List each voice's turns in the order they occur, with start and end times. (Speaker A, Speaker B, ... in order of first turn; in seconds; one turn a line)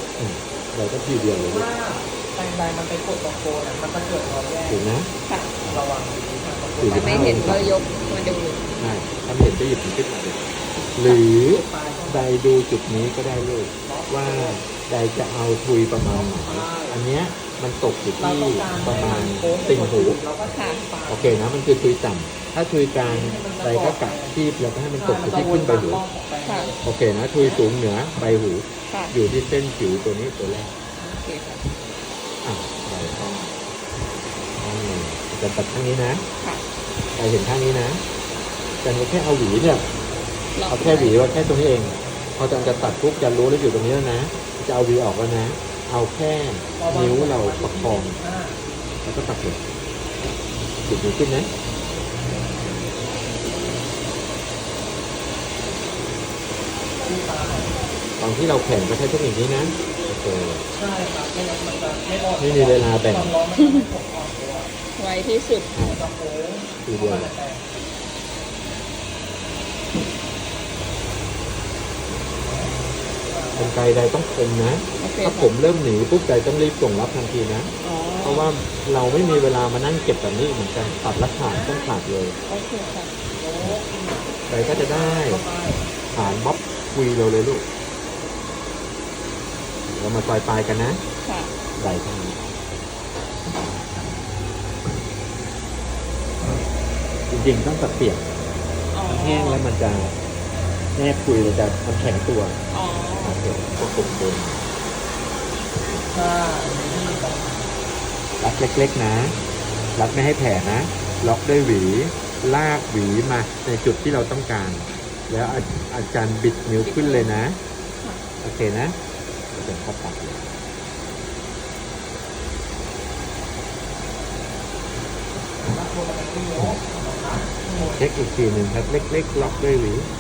Speaker A: 0.2-1.7
Speaker B: 1.3-4.8
Speaker A: 4.7-5.1
Speaker B: 5.5-7.7
Speaker A: 6.8-7.8
Speaker C: 6.9-8.7
Speaker A: 8.8-20.2
Speaker B: 11.1-12.3
Speaker B: 13.8-14.7
Speaker B: 16.1-17.1
Speaker B: 18.2-21.4
Speaker C: 20.5-20.8
Speaker A: 21.1-26.0
Speaker B: 23.0-24.4
Speaker B: 24.9-27.7
Speaker C: 26.4-26.7
Speaker A: 26.9-30.7
Speaker C: 28.9-29.1
Speaker C: 31.0-31.7
Speaker A: 32.4-33.2
Speaker C: 33.2-33.5
Speaker A: 34.6-36.2
Speaker A: 37.2-38.0
Speaker A: 38.8-39.9
Speaker C: 40.5-41.2
Speaker A: 40.7-48.2
Speaker B: 46.8-48.6
Speaker A: 49.0-49.6
Speaker A: 50.9-51.5
Speaker B: 57.0-57.8
Speaker A: 58.2-60.6
Speaker B: 60.7-64.7
Speaker A: 62.4-63.4
Speaker C: 63.6-63.9
Speaker C: 65.0-65.7
Speaker B: 65.8-67.7
Speaker A: 66.8-67.3
Speaker B: 72.4-72.8
Speaker B: 73.3-73.9
Speaker A: 73.6-82.4
Speaker C: 75.0-75.5
Speaker C: 77.8-78.5
Speaker B: 79.1-79.4
Speaker B: 80.6-82.0
Speaker C: 82.5-83.1
Speaker B: 83.3-86.4
Speaker A: 84.5-85.4
Speaker A: 86.1-87.7
Speaker A: 89.9-91.0
Speaker C: 91.2-91.5
Speaker A: 91.8-92.4
Speaker A: 97.3-98.2
Speaker C: 98.9-99.7
Speaker A: 99.1-100.2
Speaker A: 101.0-102.6
Speaker C: 102.7-103.4
Speaker A: 103.2-104.6
Speaker B: 106.1-107.7
Speaker A: 108.4-109.4
Speaker A: 110.0-117.6
Speaker C: 116.8-117.5
Speaker A: 118.4-119.0
Speaker A: 119.5-120.5
Speaker B: 125.7-128.1
Speaker A: 128.0-130.1